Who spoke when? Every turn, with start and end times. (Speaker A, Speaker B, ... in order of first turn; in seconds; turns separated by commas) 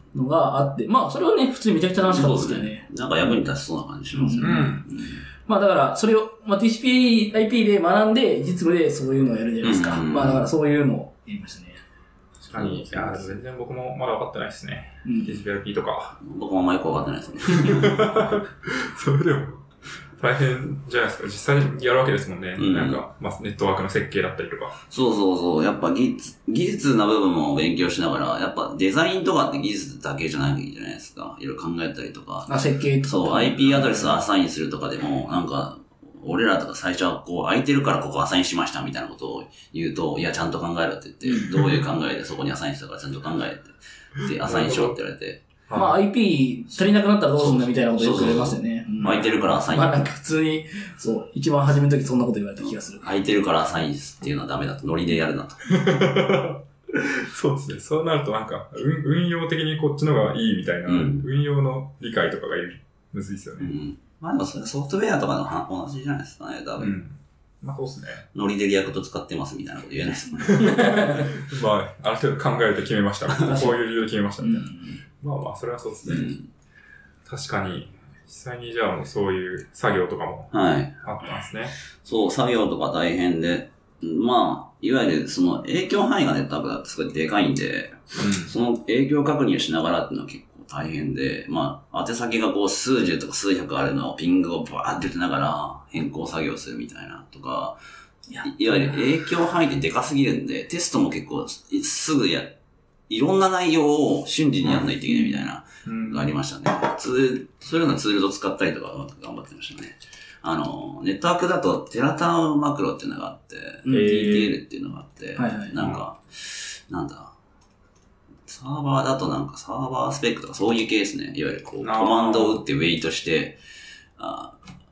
Speaker A: 0.1-2.9, Speaker B: 2.1-5.2, Speaker A: 4.1-4.7, Speaker C: 4.4-4.9, Speaker A: 5.5-11.8, Speaker B: 9.6-10.5, Speaker C: 12.4-16.2, Speaker B: 12.5-13.3, Speaker A: 15.1-15.3, Speaker B: 16.2-18.2, Speaker C: 17.5-19.6, Speaker C: 20.2-24.8, Speaker B: 22.6-23.0, Speaker B: 24.9-45.4, Speaker A: 32.5-33.8, Speaker C: 33.7-34.2, Speaker C: 44.4-45.0, Speaker C: 45.7-46.0, Speaker A: 45.7-53.1, Speaker B: 47.4-50.0, Speaker C: 49.0-49.5, Speaker B: 53.0-55.7, Speaker C: 55.7-63.7, Speaker B: 60.9-61.3, Speaker B: 63.6-67.0, Speaker C: 66.8-68.3, Speaker B: 68.3-71.0, Speaker C: 70.5-76.3, Speaker A: 70.6-71.3, Speaker B: 73.3-73.6, Speaker A: 73.4-73.8, Speaker A: 74.4-75.0, Speaker B: 76.1-76.5, Speaker C: 77.3-81.8, Speaker B: 80.5-81.0, Speaker B: 82.0-97.8, Speaker C: 88.2-88.5, Speaker A: 98.3-99.1, Speaker B: 98.4-102.6, Speaker B: 103.1-117.3, Speaker A: 105.1-105.4, Speaker C: 105.8-106.3, Speaker A: 113.8-114.4, Speaker C: 113.9-114.6, Speaker A: 115.4-115.7, Speaker B: 118.5-123.6, Speaker C: 121.8-122.6, Speaker B: 124.2-124.6